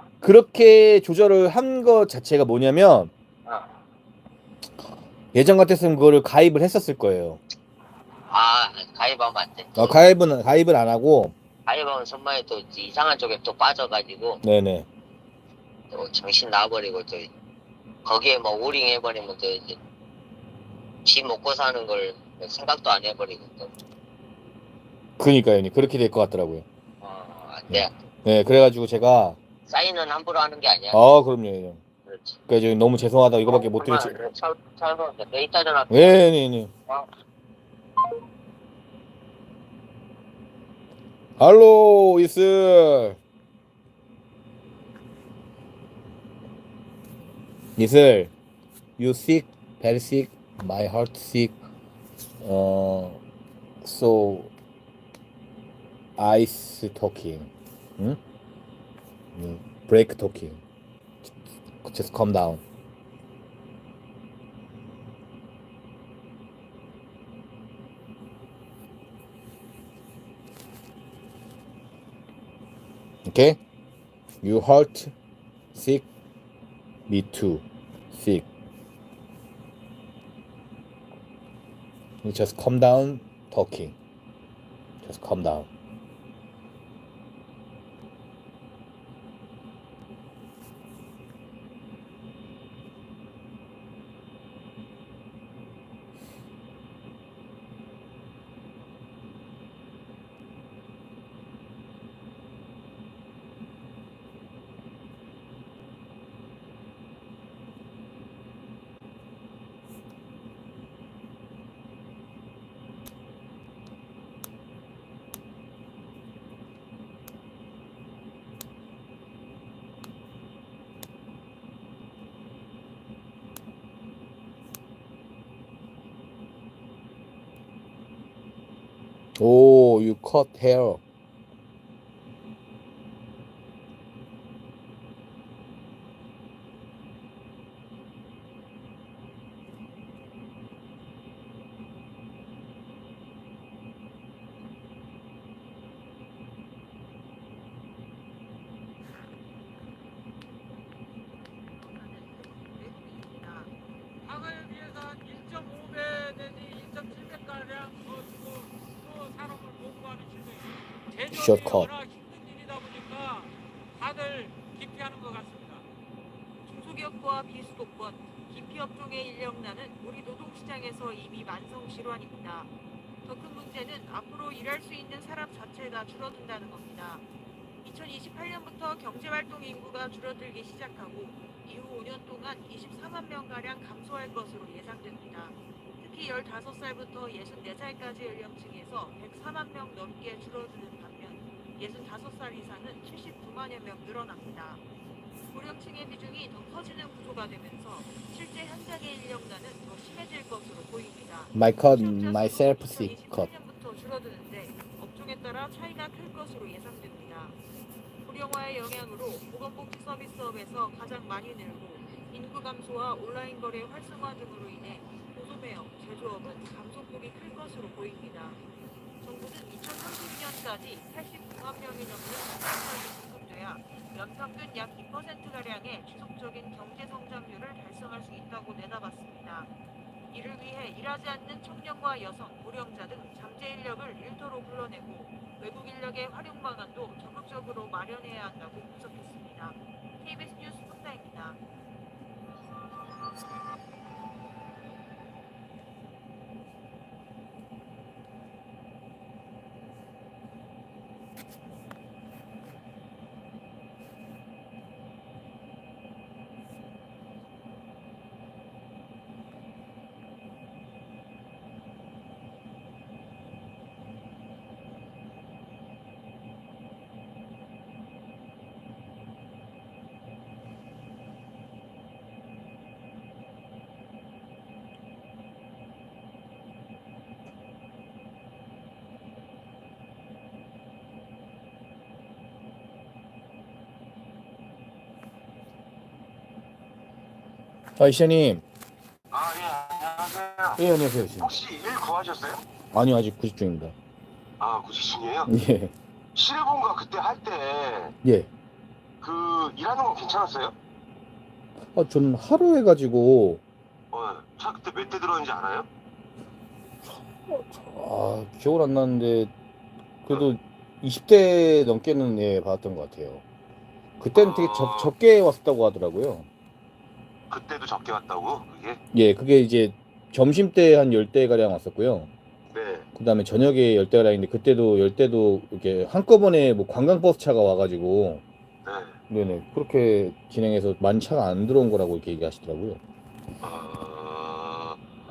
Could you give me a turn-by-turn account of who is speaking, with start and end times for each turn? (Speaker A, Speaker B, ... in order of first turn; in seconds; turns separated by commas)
Speaker A: 0.2-3.1, Speaker A: 5.3-7.4, Speaker B: 8.3-9.9, Speaker A: 9.8-11.3, Speaker B: 11.7-14.4, Speaker A: 14.4-14.9, Speaker B: 15.9-17.3, Speaker B: 18.1-19.8, Speaker B: 21.1-23.7, Speaker A: 25.2-26.6, Speaker B: 27.0-27.9, Speaker A: 27.7-29.4, Speaker B: 29.7-31.0, Speaker A: 30.9-31.8, Speaker B: 32.1-32.4, Speaker A: 32.5-34.2, Speaker B: 33.5-36.2, Speaker A: 35.9-36.7, Speaker A: 41.4-43.2, Speaker A: 47.8-48.3, Speaker A: 49.0-51.5, Speaker A: 52.4-53.2, Speaker A: 53.8-54.5, Speaker A: 56.2-58.2, Speaker A: 59.4-60.6, Speaker A: 61.8-62.6, Speaker A: 73.2-73.6, Speaker A: 74.4-75.1, Speaker A: 75.7-76.0, Speaker A: 77.1-78.5, Speaker A: 82.2-83.9, Speaker A: 85.0-85.7, Speaker A: 129.4-131.0, Speaker C: 151.4-153.7, Speaker D: 154.2-165.8, Speaker A: 161.3-161.9, Speaker C: 166.7-172.7, Speaker C: 173.2-177.2, Speaker C: 177.8-194.8, Speaker C: 195.5-207.6, Speaker A: 201.6-203.5, Speaker C: 208.2-218.6, Speaker C: 219.2-229.7, Speaker C: 230.3-241.6, Speaker A: 288.0-288.6, Speaker E: 289.3-290.8, Speaker A: 290.8-291.5, Speaker E: 291.4-292.6, Speaker A: 292.9-293.9, Speaker E: 294.6-295.5, Speaker A: 295.5-295.9, Speaker E: 296.4-298.2, Speaker A: 298.2-298.5, Speaker E: 299.2-300.8, Speaker A: 301.9-303.6, Speaker E: 304.1-305.9, Speaker A: 307.5-309.5, Speaker A: 310.2-313.4, Speaker A: 314.2-316.5, Speaker E: 314.4-315.1, Speaker E: 317.5-319.0, Speaker A: 319.1-322.3, Speaker E: 322.7-323.1, Speaker A: 323.2-328.4, Speaker E: 328.9-329.2, Speaker A: 329.3-333.0, Speaker E: 333.6-335.0